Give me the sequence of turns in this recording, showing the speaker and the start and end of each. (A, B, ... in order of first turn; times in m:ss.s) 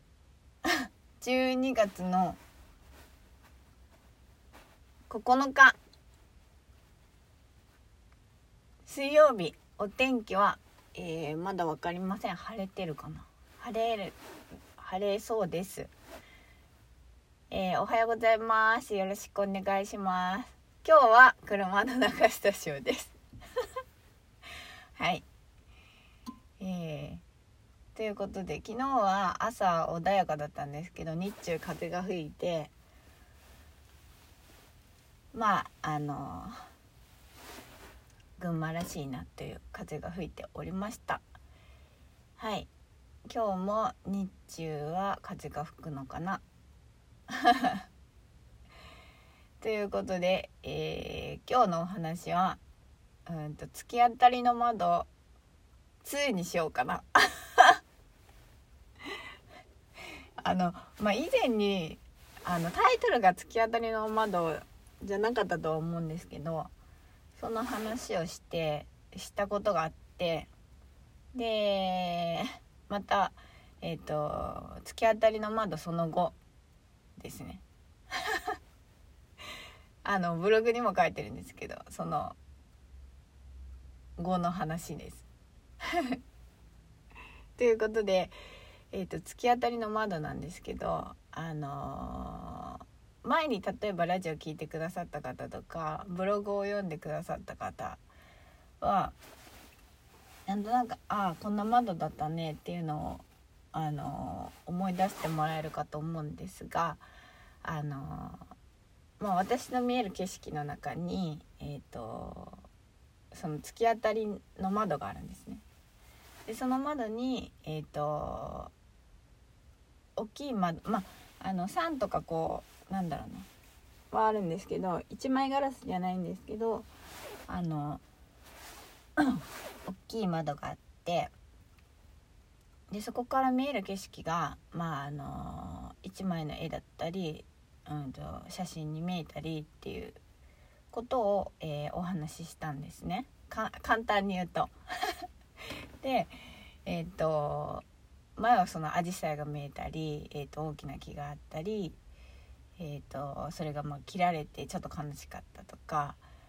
0:00.6-0:02.4 A
0:05.1-0:05.8 A
0:08.8-0:14.2 A
0:14.8-0:15.9 A
0:17.5-0:23.1 A
0:24.9-0:25.2 A
0:26.6-0:27.2 A
0:27.9-0:32.7 A
0:35.3-0:36.6 A
0:38.4-0:41.2 A
0:42.4-0:42.7 A
0:43.3-0:46.4 A
0:47.3-0:47.8 A
0:49.6-0:52.6 A
0:53.2-0:55.1 A
0:56.0-0:57.8 A
1:00.4-1:06.7 A
1:07.4-1:10.5 A
1:11.3-1:16.4 A
1:17.2-1:18.4 A
1:20.0-1:22.4 A
1:24.2-1:25.2 A
1:27.6-1:28.3 A
1:28.9-1:38.0 A
1:38.8-1:39.2 A
1:40.4-1:47.0 A
1:47.6-1:48.4 A
1:49.2-1:52.6 A
1:53.3-1:55.6 A
1:56.4-1:58.7 A
2:00.2-2:03.5 A
2:04.1-2:06.9 A
2:07.5-2:08.0 A
2:09.2-2:11.3 A
2:12.9-2:20.2 A
2:20.9-2:25.1 A
2:26.0-2:27.8 A
2:28.4-2:32.0 A
2:32.8-2:36.2 A